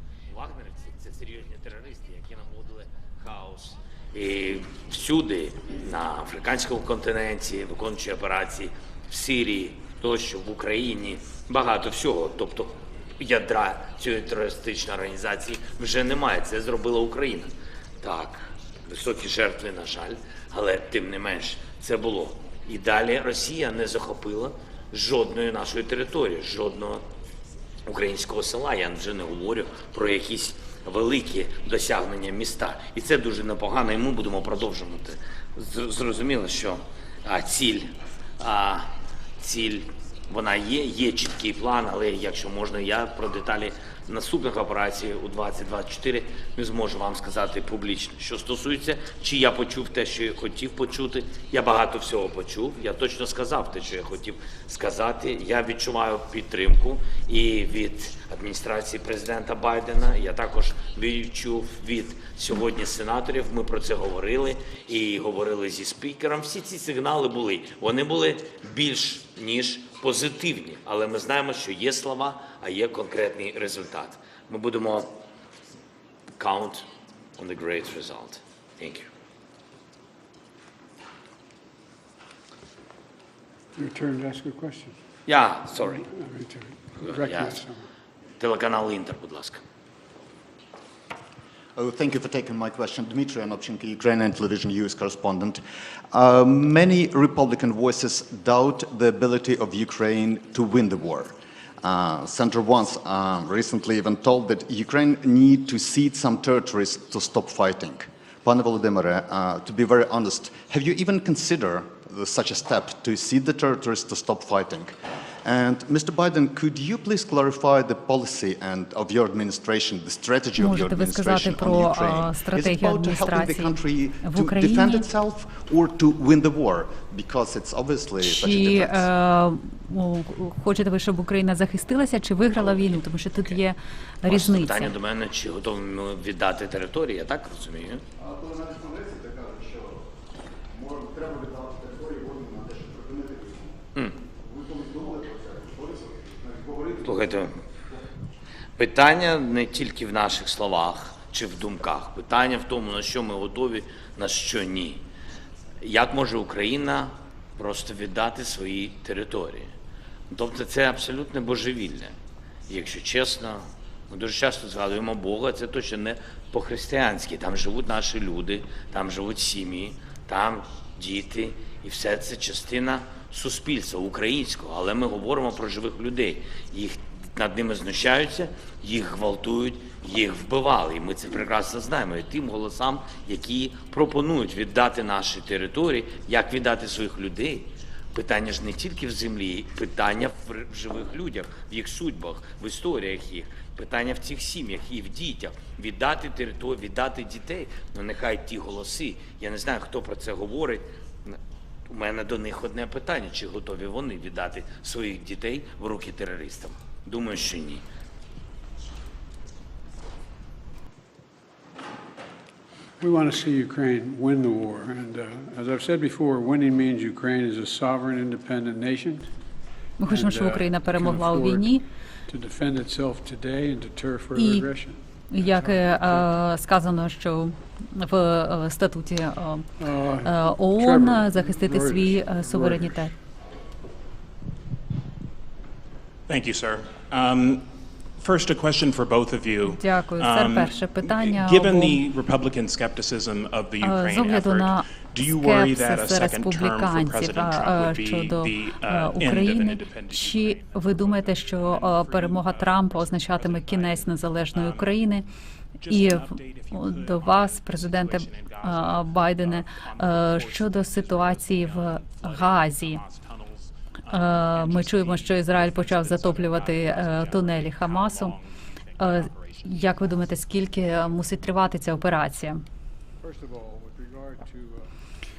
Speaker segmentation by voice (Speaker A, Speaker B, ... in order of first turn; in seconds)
Speaker A: 0.3-27.1, 27.9-75.2, 76.4-79.1, 85.3-86.0, 87.0-87.6, 88.4-89.6, 134.3-138.0, 147.0-147.6, 148.8-155.0, 155.8-159.7, 160.3-162.2, 162.7-207.8
Speaker B: 83.8-85.0, 85.7-87.9, 213.0-219.3, 220.0-226.3, 229.8-233.1, 273.2-274.9
Speaker C: 91.8-129.1, 138.2-140.1, 140.7-148.0
Speaker D: 120.6-125.1, 128.2-134.9, 220.0-221.8, 224.4-224.7, 225.3-229.7, 230.2-233.1, 239.6-242.0, 243.8-255.2, 255.9-263.0, 264.1-268.4, 269.0-272.6
Speaker E: 236.3-255.0, 255.8-270.3